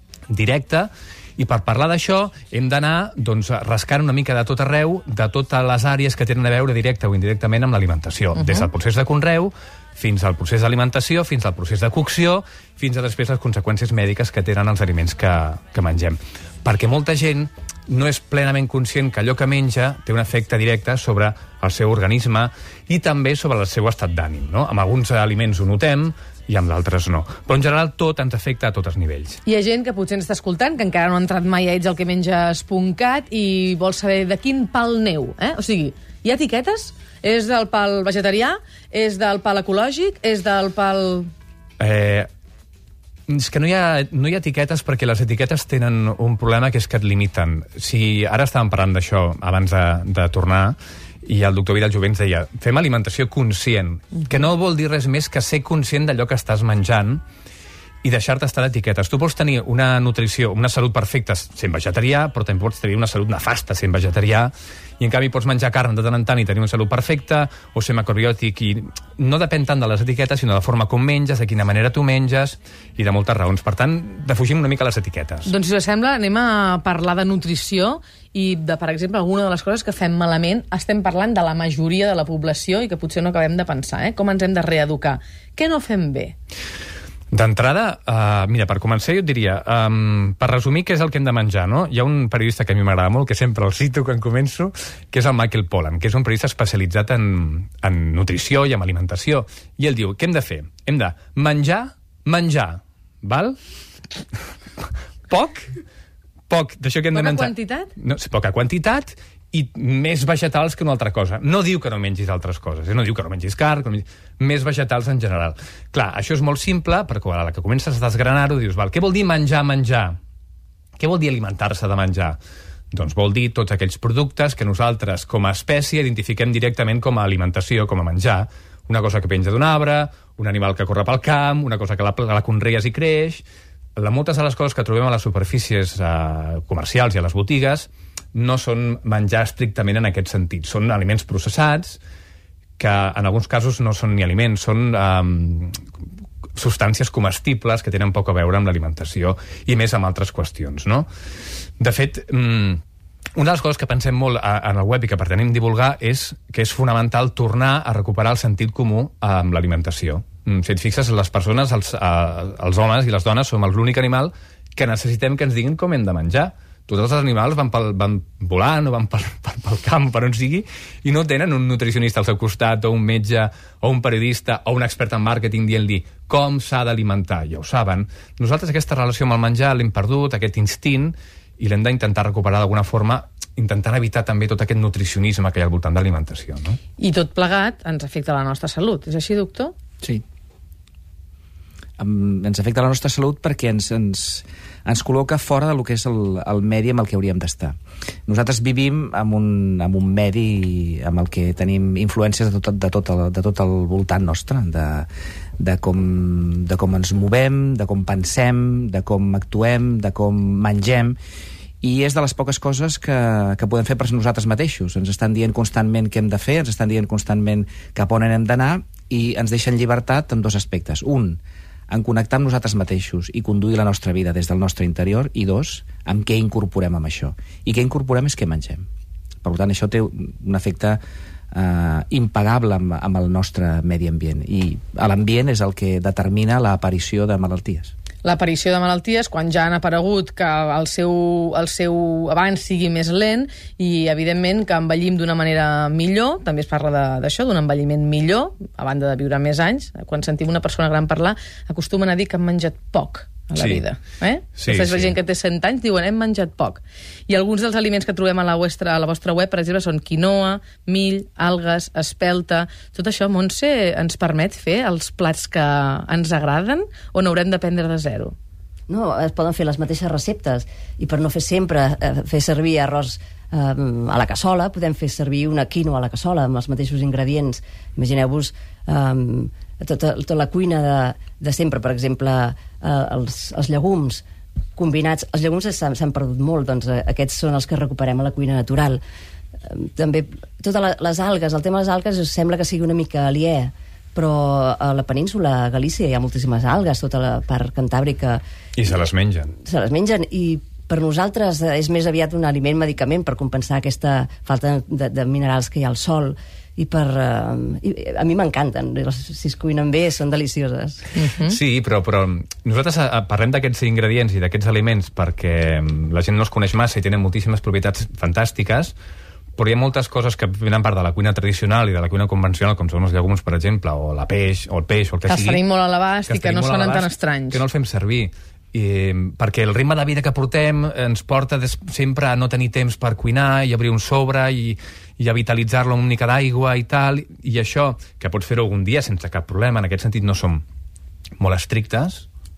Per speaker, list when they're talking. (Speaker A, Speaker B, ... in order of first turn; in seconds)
Speaker A: 0.3-29.4, 41.8-42.3, 43.3-57.2, 58.0-75.5, 87.3-103.6, 104.8-105.7, 106.5-120.1, 121.0-122.4, 122.9-133.4, 134.0-142.0, 142.8-145.8, 146.6-151.1, 151.8-152.8, 153.4-186.8, 253.6-253.8, 254.6-255.1, 298.8-299.5, 311.5-318.9, 319.6-325.6, 326.3-340.6, 341.4-342.2
Speaker B: 8.4-8.7, 29.4-41.3, 75.5-86.3, 107.1-107.9, 187.0-189.7, 238.2-268.4, 311.1-311.6, 325.3-327.6
Speaker C: 192.0-197.8, 198.3-205.1, 205.6-211.2, 211.8-228.8, 229.4-231.0, 231.5-237.9
Speaker D: 268.9-284.2, 284.8-289.0, 289.6-298.4, 299.6-311.2